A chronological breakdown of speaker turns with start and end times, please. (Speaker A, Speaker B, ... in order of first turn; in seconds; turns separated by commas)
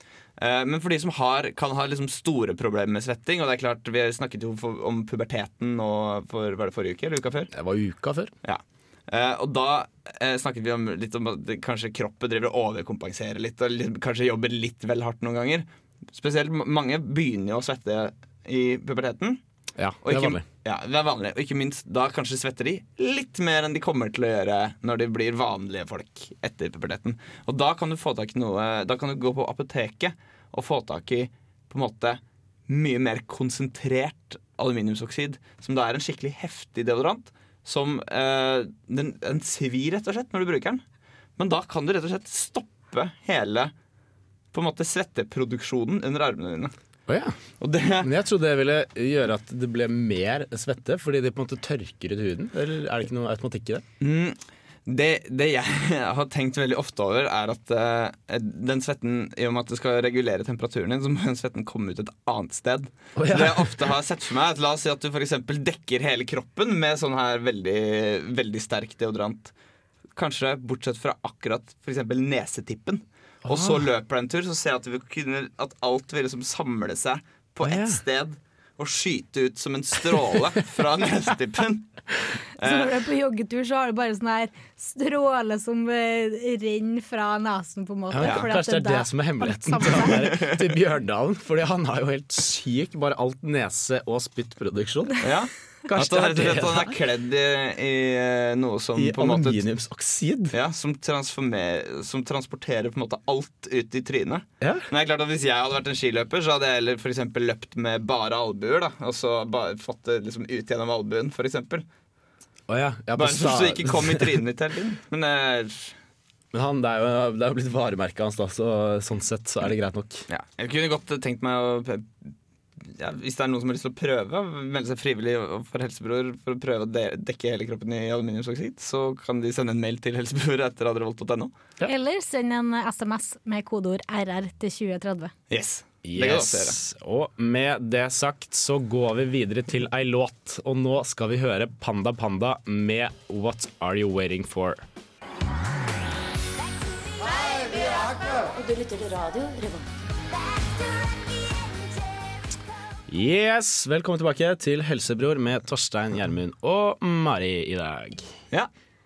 Speaker A: 0.4-7.5, Speaker B: 7.5-8.3, Speaker A: 8.4-19.4, Speaker B: 19.8-20.4, Speaker A: 20.0-40.8, Speaker A: 41.4-43.7, Speaker A: 44.5-46.7, Speaker B: 47.1-47.3, Speaker A: 47.6-48.1, Speaker B: 48.0-53.8, Speaker A: 54.0-69.5, Speaker B: 63.1-63.9, Speaker A: 70.2-81.9, Speaker B: 73.4-73.8, Speaker B: 77.6-78.0, Speaker A: 82.6-83.0, Speaker C: 82.6-90.2, Speaker B: 88.1-95.3, Speaker A: 90.1-90.7, Speaker A: 95.2-99.6, Speaker B: 95.8-97.0, Speaker B: 99.0-100.5, Speaker A: 100.5-111.8, Speaker B: 104.6-104.9, Speaker B: 112.7-114.4, Speaker A: 113.2-115.9, Speaker B: 116.5-120.2, Speaker A: 120.3-122.3, Speaker A: 122.8-131.5, Speaker C: 131.8-135.3, Speaker A: 135.5-136.8, Speaker B: 136.0-144.8, Speaker D: 147.2-149.9, Speaker B: 153.1-158.3